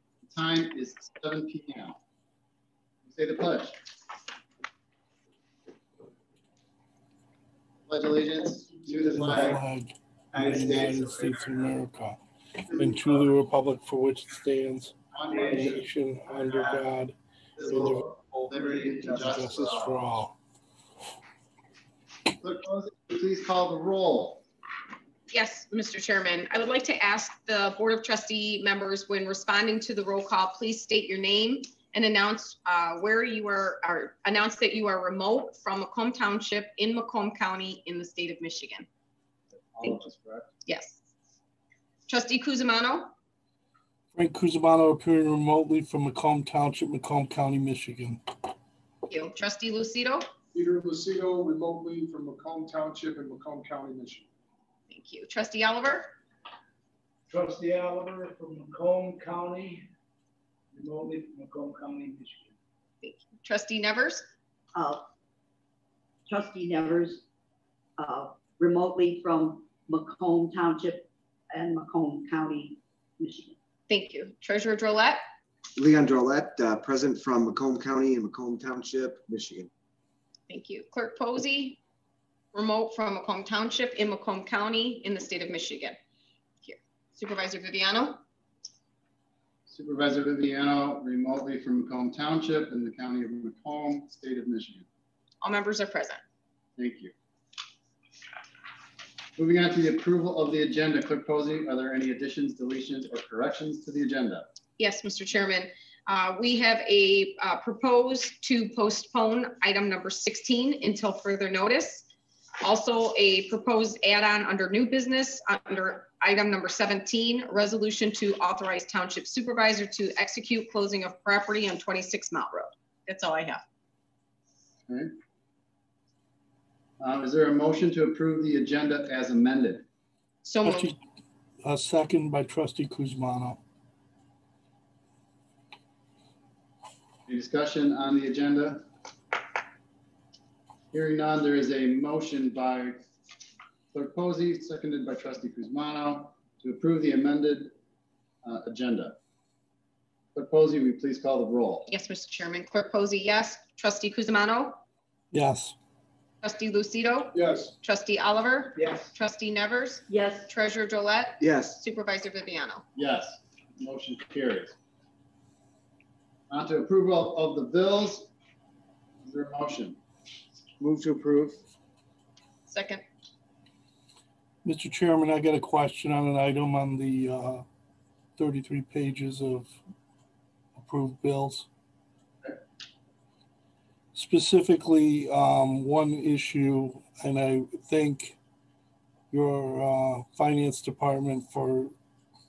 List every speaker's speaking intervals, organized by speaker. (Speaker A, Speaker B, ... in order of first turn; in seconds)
Speaker A: 0.3-2.0, 3.0-3.8, 7.9-9.6, 10.4-11.0, 15.1-15.8, 16.5-16.8, 17.6-20.0, 22.4-24.4, 39.6-40.5, 89.7-94.9, 96.8-97.1, 99.4-104.5, 127.0-129.9, 137.3-138.9, 140.9-143.0, 143.9-147.7, 148.4-149.2, 150.3-151.9, 163.0-164.8, 166.5-168.3, 169.2-170.0, 170.8-171.6
Speaker B: 9.1-18.1, 19.0-20.4, 44.1-48.2, 130.6-131.0, 131.6-133.6, 155.3-155.8, 174.6-177.6, 178.4-179.8, 180.8-181.7, 184.1-188.4, 189.3-191.9
Speaker C: 25.3-38.9, 40.7-41.0, 42.1-43.1, 49.1-50.3, 54.9-56.1, 63.0-64.3, 73.9-75.2, 80.5-81.8, 82.5-86.0, 86.7-88.2, 95.4-96.2, 104.8-112.1, 112.6-123.6, 130.4-130.9, 151.9-154.8, 156.4-162.8, 172.7-173.0
Speaker D: 50.5-54.3, 157.3-157.7
Speaker E: 57.3-59.9, 60.7-62.6, 158.8-159.1
Speaker F: 64.7-65.1, 66.3-67.2, 68.0-73.6, 160.1-160.5
Speaker G: 75.8-79.7, 161.4-161.8